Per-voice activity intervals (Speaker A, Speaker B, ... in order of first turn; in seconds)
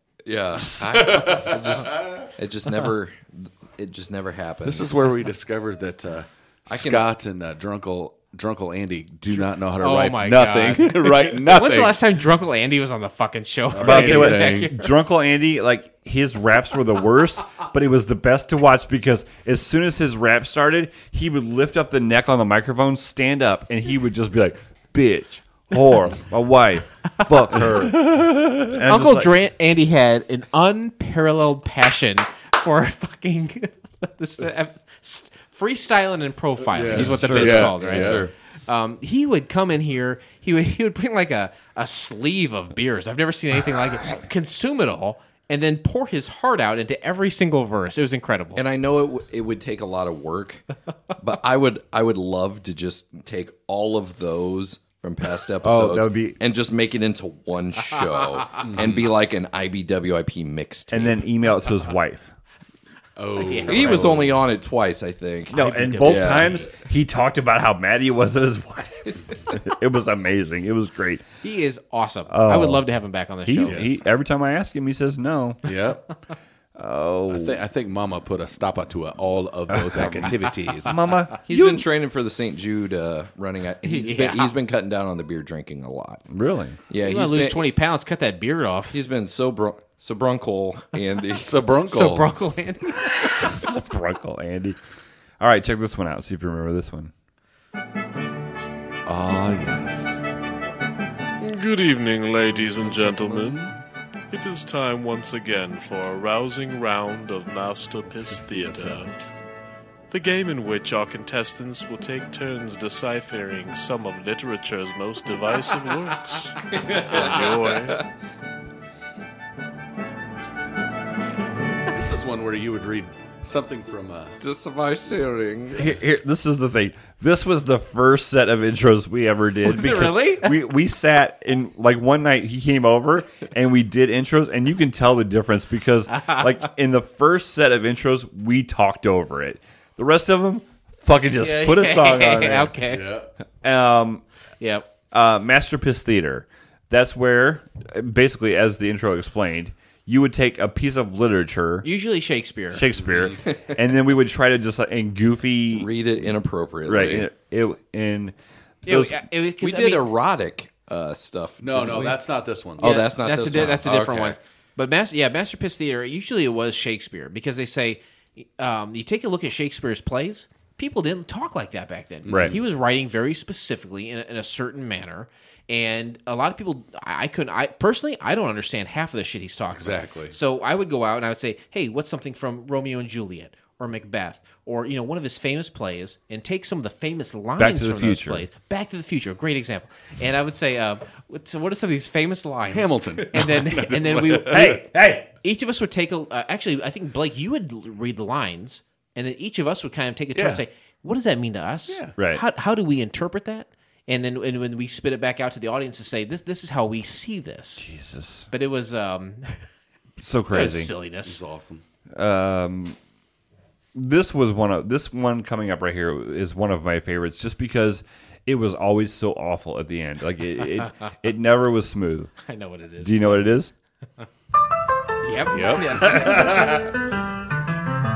Speaker A: 0.2-4.9, 6.7-7.1, 37.0-38.3, 48.5-50.6, 51.2-61.2, 63.6-66.6, 81.5-86.2, 86.9-87.6, 88.9-91.9, 116.7-118.1, 124.4-125.9, 155.7-157.3, 159.6-162.2, 162.8-164.4
Speaker B: 0.9-2.2, 4.6-12.0, 13.7-14.7, 36.7-38.3, 58.6-59.1, 63.2-64.4, 66.0-66.7, 73.6-74.0, 75.6-76.1, 77.3-81.1, 91.3-92.3, 99.0-100.2, 102.9-103.7, 108.3-109.0, 121.9-124.3, 142.8-143.3, 152.9-153.4, 161.6-162.9, 172.2-172.6, 179.7-180.3, 192.7-194.9, 200.3-200.6, 201.9-202.1, 211.2-211.8, 225.5-226.4
Speaker C: 9.8-14.9, 27.9-48.6, 63.4-64.2, 65.6-66.2, 71.4-73.8, 83.8-84.5, 87.0-89.0, 91.9-93.5, 129.6-130.5, 141.4-143.1, 144.6-144.9, 151.8-152.8, 158.8-160.1, 162.8-194.8, 195.4-207.8, 208.5-209.7, 210.5-211.4, 222.4-223.6, 225.2-226.9
Speaker D: 13.8-29.3, 36.9-38.2, 55.6-56.4, 60.9-62.3, 65.5-71.2, 72.3-72.8, 73.5-75.6, 76.8-77.6, 79.9-80.3, 80.8-81.8, 86.3-86.8, 93.4-94.8, 95.4-97.1, 125.7-142.8, 143.6-144.2, 145.1-151.9, 152.7-155.9, 156.8-158.3, 158.8-159.2, 187.6-188.5, 194.4-195.2, 202.2-202.4, 207.8-208.5, 210.2-210.9, 212.2-213.0, 213.9-222.3, 223.0-223.7, 226.1-226.7
Speaker E: 101.4-103.7, 104.3-109.1, 110.1-118.0